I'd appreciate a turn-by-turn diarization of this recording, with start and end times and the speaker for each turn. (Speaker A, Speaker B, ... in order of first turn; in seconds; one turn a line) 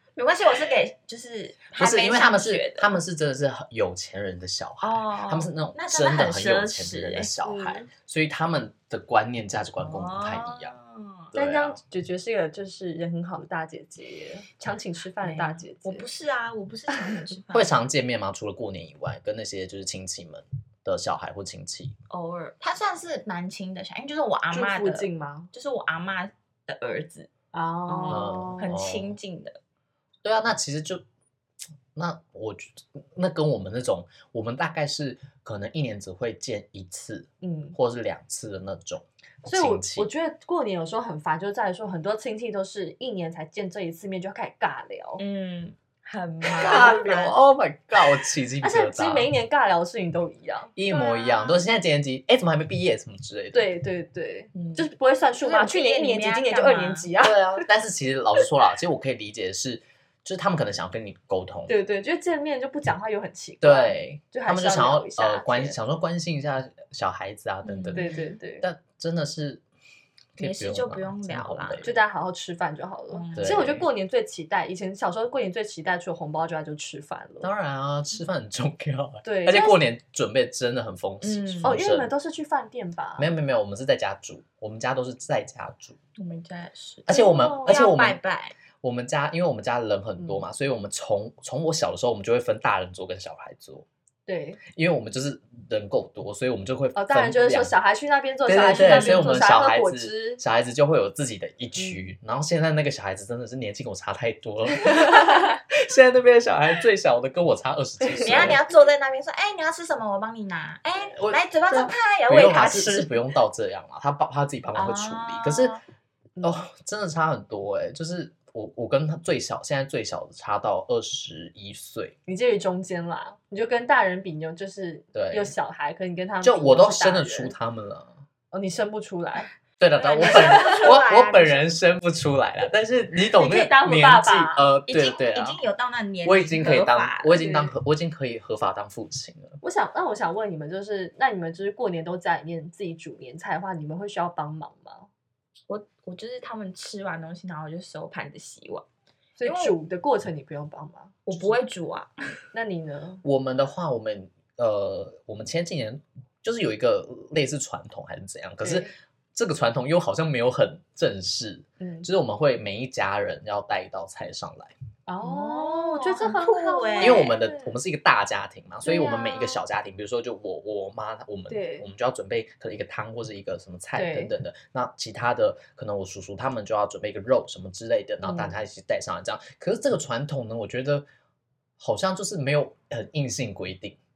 Speaker A: 0.2-2.9
Speaker B: 1.7-10.8
Speaker A: 4.8-7.3
Speaker C: 7.4-7.9
Speaker A: 9.8-11.3
Speaker B: 11.3-11.8
Speaker C: 11.3-16.1
Speaker A: 15.2-17.8
Speaker B: 17.5-21.9
Speaker A: 22.1-27.3
Speaker C: 24.5-25.5
Speaker C: 27.5-28.7
Speaker A: 27.9-29.6
Speaker B: 28.1-29.2
Speaker B: 30.2-31.0
Speaker B: 31.9-40.1
Speaker C: 37.4-37.8
Speaker C: 39.5-45.2
Speaker A: 45.2-47.3
Speaker B: 46.5-49.3
Speaker C: 46.6-47.3
Speaker C: 48.6-51.6
Speaker B: 50.8-53.7
Speaker C: 53.5-57.7
Speaker A: 54.5-54.9
Speaker A: 55.4-57.1
Speaker B: 57.2-61.8
Speaker C: 61.7-65.8
Speaker B: 63.6-68.1
Speaker A: 67.6-68.2
Speaker C: 68.0-68.7
Speaker B: 68.6-69.6
Speaker B: 70.4-72.0
Speaker A: 70.4-71.9
Speaker C: 71.8-77.5
Speaker A: 73.1-73.6
Speaker B: 73.3-73.9
Speaker B: 77.4-82.1
Speaker C: 79.2-79.8
Speaker A: 81.2-81.8
Speaker C: 81.6-83.3
Speaker B: 83.2-86.0
Speaker A: 86.2-88.5
Speaker B: 87.1-88.2
Speaker C: 87.1-87.8
Speaker B: 88.8-93.9
Speaker C: 94.3-94.6
Speaker B: 94.7-97.7
Speaker C: 97.0-100.4
Speaker B: 98.5-108.6
Speaker C: 101.8-102.0
Speaker C: 108.0-108.6
Speaker A: 108.2-113.2
Speaker B: 111.1-115.8
Speaker A: 114.8-115.8
Speaker C: 116.4-116.7
Speaker B: 116.4-122.2
Speaker C: 122.3-127.5
Speaker B: 125.1-125.5
Speaker B: 126.4-128.2
Speaker C: 128.5-129.5
Speaker B: 129.8-135.6
Speaker C: 130.0-130.8
Speaker A: 130.0-131.7
Speaker C: 133.4-134.7
Speaker A: 134.9-137.4
Speaker B: 136.2-139.6
Speaker C: 137.3-137.7
Speaker C: 139.6-145.1
Speaker A: 145.7-148.8
Speaker C: 149.4-151.5
Speaker A: 149.4-149.8
Speaker A: 151.3-152.1
Speaker C: 152.5-153.2
Speaker B: 153.2-164.7
Speaker C: 158.6-158.9
Speaker C: 161.8-162.1
Speaker C: 165.1-167.6
Speaker A: 165.2-167.5
Speaker B: 167.0-181.1
Speaker C: 168.8-169.6
Speaker C: 171.5-171.9
Speaker C: 173.9-174.3
Speaker C: 178.2-178.6
Speaker B: 181.8-184.0